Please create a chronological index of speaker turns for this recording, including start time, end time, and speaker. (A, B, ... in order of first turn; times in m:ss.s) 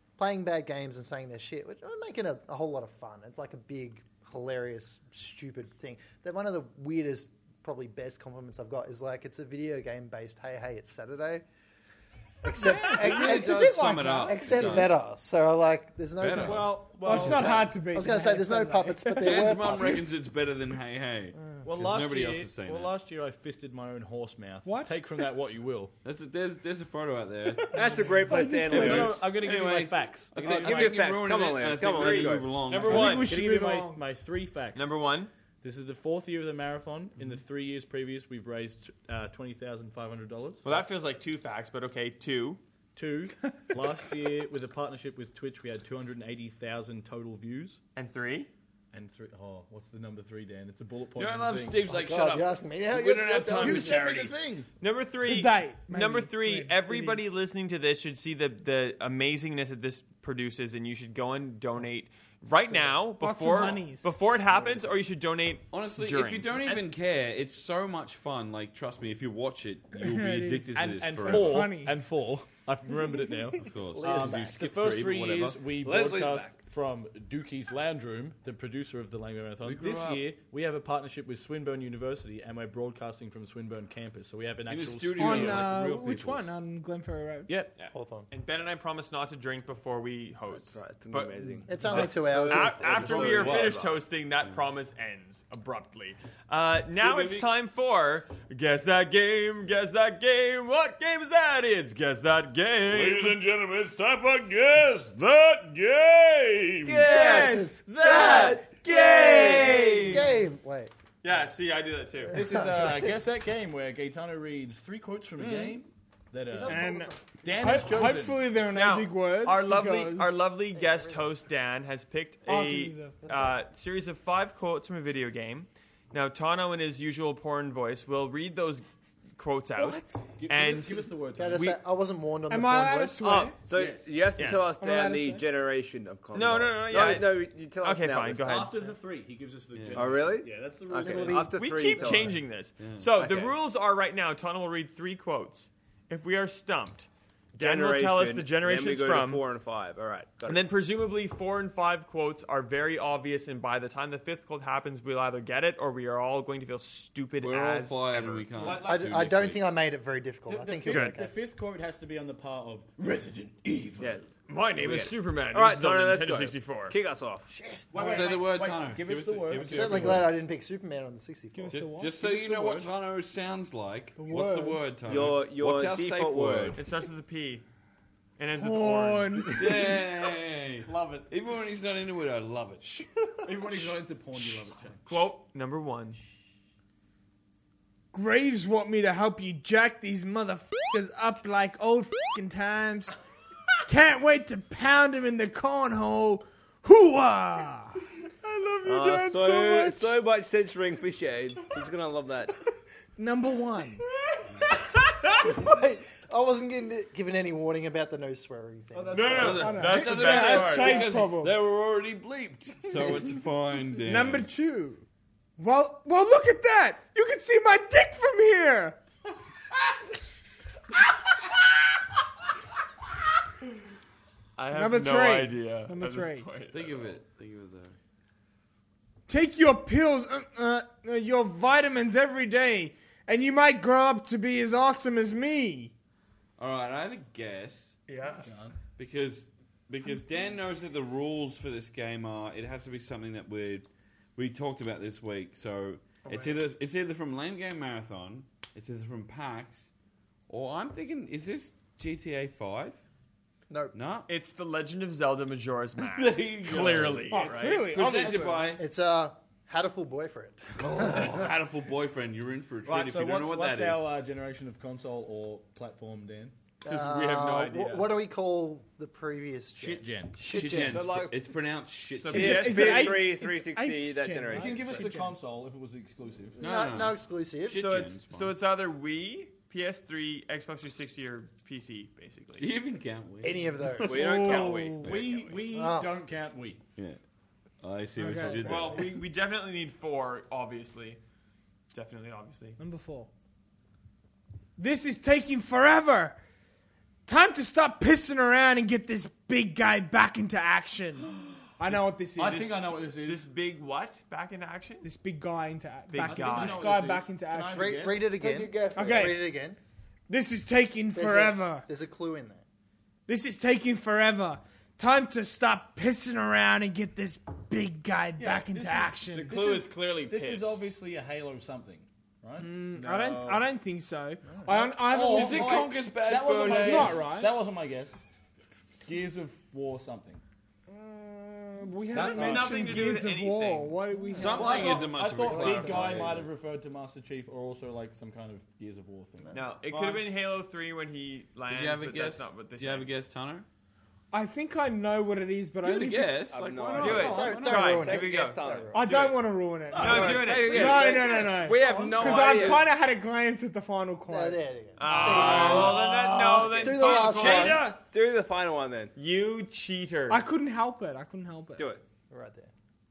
0:00.2-0:11.4 A
0:12.4-0:20.2 A
0:12.6-0:15.0 B
0:12.8-0:14.8 C
0:16.2-0:17.2 B
0:16.3-0:17.7 D
0:16.6-0:19.5 C
0:19.2-0:23.0 B
0:21.3-0:21.7 A
0:21.6-0:25.9 D
0:24.6-0:25.2 C
0:26.0-0:33.4 B
0:27.5-0:29.2 C
0:27.7-0:29.2 E
0:28.7-0:31.0 D
0:30.4-0:32.5 E
0:31.8-0:33.4 F
0:32.7-0:35.0 D
0:33.1-0:34.0 C
0:34.7-0:35.3 F
0:35.6-0:40.8 D
0:40.6-0:42.6 F
0:43.0-0:47.8 D
0:48.0-0:48.5 F
0:48.9-0:52.0 D
0:51.2-0:54.4 B
0:51.9-0:54.4 A
0:53.3-0:54.7 D
0:54.8-1:06.5 F
0:55.2-0:57.4 C
1:03.2-1:04.2 C
1:05.7-1:11.8 B
1:06.6-1:06.9 D
1:09.9-1:12.0 C
1:10.7-1:25.7 D
1:13.6-1:15.6 B
1:13.9-1:14.8 A
1:15.8-1:16.6 E
1:19.6-1:20.3 B
1:24.7-1:26.5 B
1:25.1-1:27.6 C
1:27.5-1:27.8 D
1:27.8-1:43.4 F
1:27.9-1:28.3 A
1:30.5-1:34.0 E
1:31.7-1:33.6 A
1:33.0-1:33.9 B
1:37.0-1:37.5 B
1:42.9-1:47.1 B
1:46.8-1:49.6 E
1:47.0-1:47.8 C
1:47.3-1:50.9 A
1:47.9-1:50.2 D
1:48.0-1:48.4 B
1:48.9-1:49.5 C
1:49.2-1:50.2 B
1:49.8-1:50.2 F
1:51.2-1:52.4 F
1:52.3-1:56.9 D
1:52.3-1:53.1 A
1:55.4-1:55.8 B
1:56.5-1:57.3 A
1:56.6-2:00.5 C
1:57.4-1:58.5 D
1:58.7-2:08.8 F
2:00.7-2:01.3 A
2:02.4-2:03.2 C
2:03.2-2:03.6 A
2:09.4-2:11.8 F
2:09.8-2:10.3 C
2:10.3-2:11.8 D
2:11.4-2:13.2 A
2:12.5-2:13.6 C
2:13.2-2:18.6 E
2:13.7-2:14.2 D
2:14.4-2:14.7 F
2:14.8-2:15.4 C
2:16.3-2:18.8 F
2:18.4-2:22.4 D
2:19.7-2:20.0 B
2:20.0-2:22.4 E
2:21.2-2:21.5 A
2:21.6-2:29.4 F
2:22.8-2:23.1 B
2:23.2-2:23.6 E
2:27.6-2:30.7 E
2:30.5-2:38.7 F
2:37.4-2:39.6 B
2:38.6-2:39.2 D
2:38.7-2:41.3 A
2:40.5-2:44.2 D
2:40.9-2:41.1 F
2:44.0-2:47.5 E
2:44.5-2:46.9 F
2:47.5-2:48.4 A
2:47.9-2:50.3 D
2:48.0-2:50.3 B
2:49.6-2:51.9 A
2:51.5-2:52.9 C
2:51.7-2:56.9 B
2:52.3-2:52.8 D
2:54.2-2:55.0 C
2:55.0-2:56.8 E
2:56.7-2:57.6 F
2:58.4-2:59.6 F
2:58.5-3:00.0 C
2:59.6-3:03.1 B
3:00.8-3:01.3 D
3:03.4-3:05.2 D
3:05.1-3:06.2 F
3:08.1-3:13.2 C
3:13.9-3:20.2 C
3:18.8-3:22.6 E
3:23.2-3:24.0 C
3:25.4-3:29.7 A
3:29.1-3:31.3 F
3:29.1-3:29.5 D
3:29.1-3:34.5 B
3:29.5-3:31.6 C
3:34.0-3:35.0 C
3:35.6-3:39.0 C
3:44.6-3:47.1 F
3:44.7-3:46.5 C
3:46.7-3:48.0 B
3:49.3-3:55.9 C
3:56.6-3:58.0 B
3:58.1-3:58.5 F
3:58.3-3:58.8 D
3:59.0-4:09.9 B
4:06.2-4:06.6 F
4:10.5-4:13.0 B
4:13.7-4:13.9 A
4:13.9-4:14.3 B
4:14.3-4:18.4 F
4:16.0-4:18.8 B
4:16.8-4:17.1 D
4:17.3-4:18.8 C
4:18.8-4:21.5 A
4:20.8-4:24.1 B
4:22.8-4:26.5 D
4:26.8-4:31.0 A
4:26.8-4:28.1 F
4:29.8-4:30.5 D
4:30.4-4:33.0 B
4:30.7-4:31.4 E
4:32.2-4:33.3 F
4:32.3-4:35.4 C
4:32.3-4:35.1 E
4:34.5-4:36.6 D
4:36.6-4:38.1 A
4:36.6-4:38.5 B
4:37.7-4:42.7 F
4:42.6-4:45.5 B
4:43.4-4:44.3 A
4:44.0-4:45.2 E
4:44.1-4:45.2 C
4:44.6-4:46.8 D
4:45.7-4:46.1 A
4:47.8-4:49.2 B
4:48.2-4:48.8 C
4:48.2-4:49.0 D
4:48.6-4:51.2 F
4:51.9-4:52.8 F
4:52.8-4:53.3 C
4:54.8-4:56.4 C
4:57.3-5:02.8 C
5:01.3-5:03.5 D
5:02.4-5:05.1 F
5:05.0-5:08.0 C
5:06.1-5:06.9 F
5:06.2-5:08.3 D
5:07.7-5:09.8 A
5:08.4-5:09.3 E
5:08.9-5:09.4 C
5:10.3-5:11.9 C
5:11.1-5:12.6 A
5:13.3-5:19.6 C
5:18.4-5:23.7 D
5:19.3-5:20.8 F
5:22.6-5:25.9 C
5:24.6-5:28.2 D
5:25.3-5:27.2 B
5:26.6-5:27.6 C
5:29.0-5:30.4 D
5:30.9-5:36.1 C
5:32.1-5:33.0 D
5:32.1-5:33.9 F
5:34.3-5:36.5 B
5:34.4-5:40.3 D
5:39.5-5:43.1 F
5:41.7-5:43.7 B
5:44.3-5:46.5 C
5:45.8-5:48.1 B
5:46.5-5:49.0 E
5:47.0-5:49.4 F
5:47.1-5:49.0 A
5:48.9-5:56.9 C
5:49.9-5:52.8 E
5:50.0-5:50.3 D
5:50.0-5:51.2 F
5:51.8-5:52.8 D
5:54.3-5:56.0 A
5:55.0-5:57.9 F
5:55.5-5:55.9 E
5:55.5-5:55.8 B
5:56.5-5:59.1 E
5:56.8-5:57.8 A
5:59.2-6:00.4 F
6:00.3-6:01.9 C
6:01.8-6:02.0 E
6:02.3-6:02.7 A